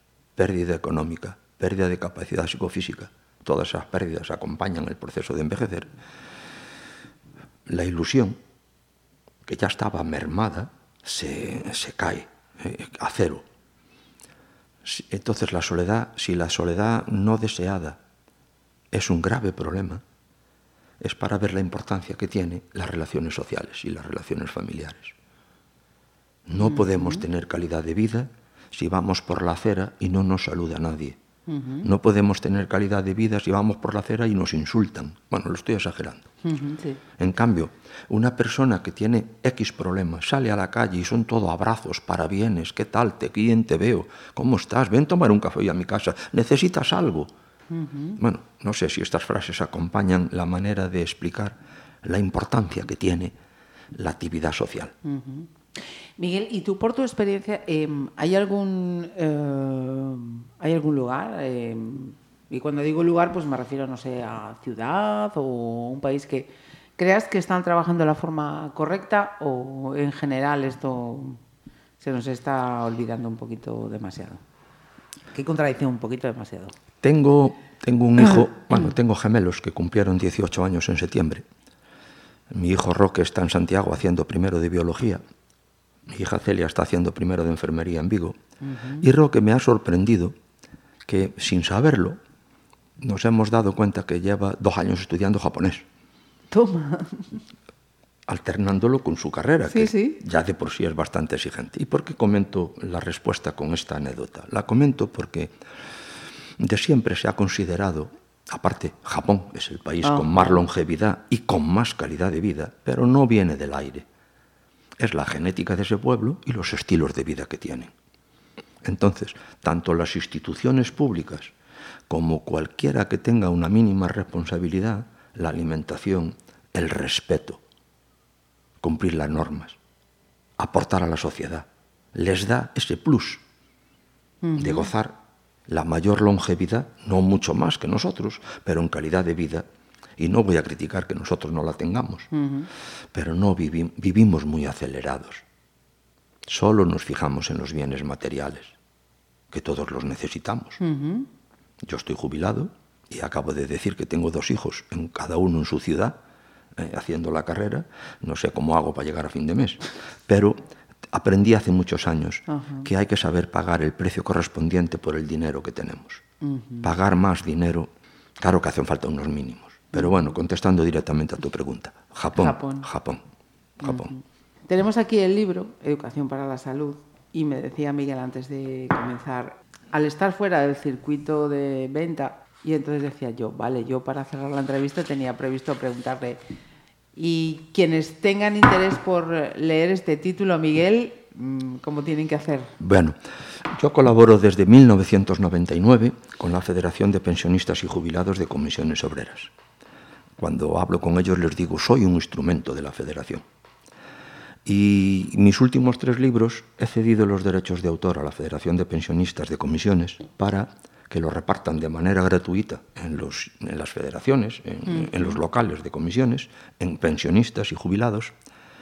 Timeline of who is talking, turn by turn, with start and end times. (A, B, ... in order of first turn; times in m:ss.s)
0:00.4-0:05.9 A
0:07.7-0:08.4 A
0:09.4-0:13.4 A
0:14.8-0:18.0 A
0:18.9-0:20.0 A
0:21.0-0:25.2 A
0:26.5-0:31.2 A
0:26.6-0:27.3 B
0:31.5-0:31.9 B
0:31.8-0:36.3 A
0:36.4-0:37.0 B
0:37.2-0:47.3 A
0:47.7-0:48.2 B
0:48.2-0:53.3 A
0:54.0-0:54.9 A
0:55.0-0:55.5 B
0:56.2-1:11.4 B
1:12.0-1:14.4 B
1:15.3-1:16.8 B
1:17.0-1:21.4 A
1:22.5-1:25.2 A
1:26.1-1:28.4 A
1:28.6-1:29.0 B
1:29.0-1:30.4 A
1:31.1-1:32.2 A
1:33.0-1:35.8 A
1:36.5-1:37.4 B
1:38.3-1:45.5 A
1:39.7-1:40.2 B
1:46.6-1:54.1 A
1:50.0-1:50.6 B
1:55.0-1:57.9 A
1:58.8-2:01.5 A
2:02.1-2:07.6 A
2:08.8-2:09.8 A
2:10.6-2:13.4 A
2:14.4-2:14.9 B
2:14.6-2:15.2 A
2:15.7-2:19.7 A
2:20.2-2:22.3 A
2:22.3-2:22.7 B
2:23.1-2:25.4 A
2:26.5-2:28.8 A
2:29.5-2:30.8 A
2:30.8-2:31.3 B
2:31.8-2:36.2 A
2:36.8-2:46.2 A
2:42.5-2:42.9 B
2:46.4-2:46.9 B
2:46.8-2:53.2 A
2:49.9-2:50.3 B
2:52.4-2:52.9 B
2:53.8-2:54.1 A
2:53.8-3:06.4 B
3:07.2-3:12.7 B
3:12.8-3:19.5 A
3:20.4-3:23.4 A
3:24.6-3:38.3 A
3:34.9-3:35.4 B